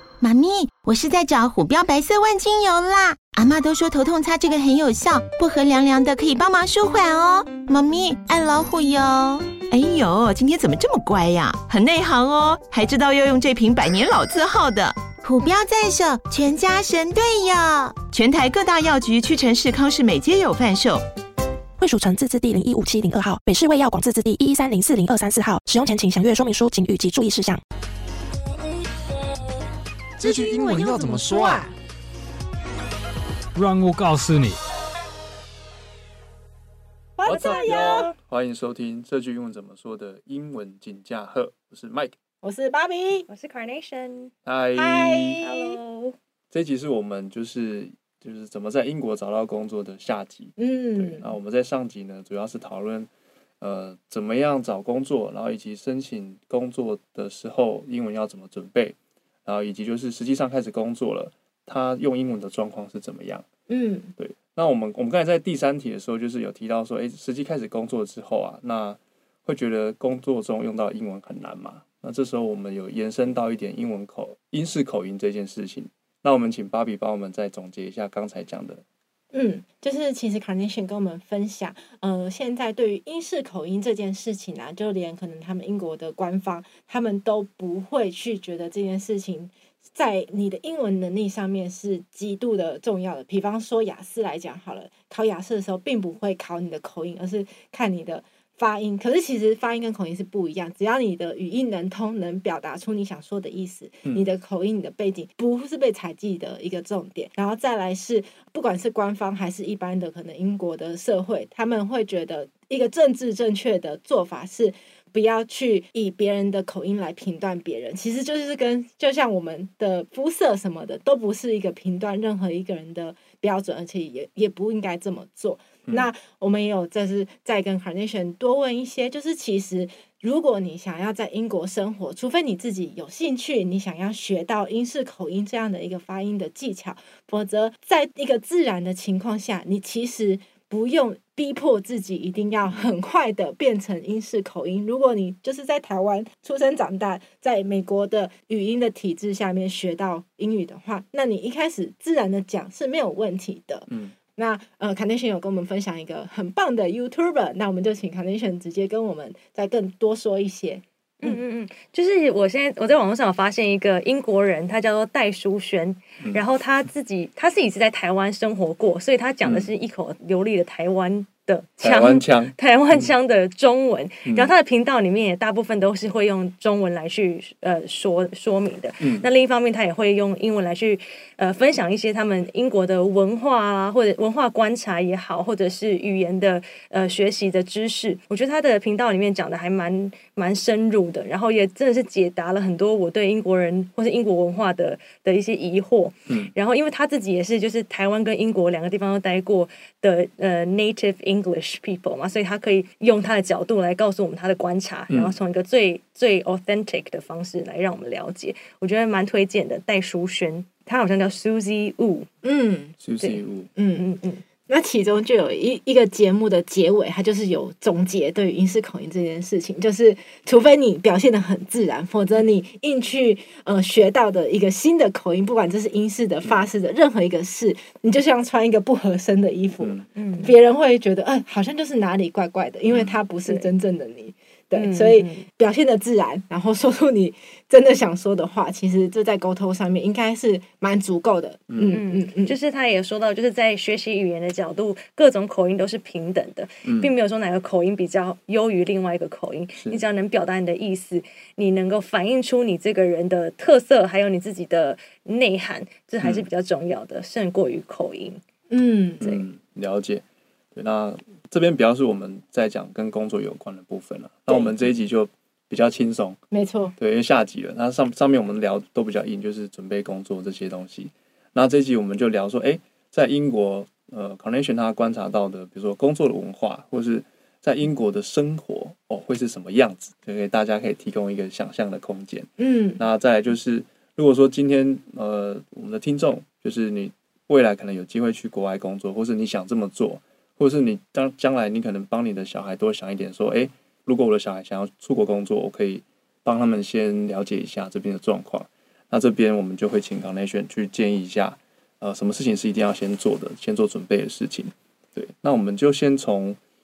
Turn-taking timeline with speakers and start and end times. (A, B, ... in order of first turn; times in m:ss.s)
0:00.2-0:09.6 A
0:09.6-0:15.1 B
0:15.2-0:18.0 A
0:18.0-0:21.0 B
0:21.8-0:27.6 C
0:30.2-0:31.7 D
0:30.2-0:31.6 E
0:33.5-0:34.6 D
0:37.2-0:38.1 E
0:37.2-0:42.1 F
0:37.3-0:38.1 G
0:42.4-0:43.3 E
0:43.3-0:44.3 G
0:44.4-0:45.4 F
0:44.7-0:45.8 E
0:45.4-0:46.1 G
0:46.5-0:53.1 F
0:50.6-0:51.3 E
0:53.6-1:03.4 F
1:03.7-1:04.1 E
1:04.2-1:18.8 F
1:19.3-2:41.4 E
2:41.2-3:32.3 G
2:49.4-2:49.7 F
2:51.8-2:53.1 F
2:54.2-2:54.5 F
2:59.0-2:59.3 F
3:25.1-3:25.4 F
3:32.4-3:33.0 E
3:33.0-3:33.7 F
3:33.8-4:02.6 E
3:34.0-3:34.4 G
3:49.8-3:50.0 F
3:50.2-3:50.5 G
3:52.9-3:53.2 F
3:54.7-3:55.5 G
4:01.7-4:02.0 F
4:01.9-4:18.4 G
4:06.8-4:07.1 F
4:18.7-4:19.2 E
4:19.2-4:20.2 F
4:20.7-4:26.4 F
4:26.5-4:26.9 E
4:27.0-5:06.6 F
4:42.6-4:43.0 E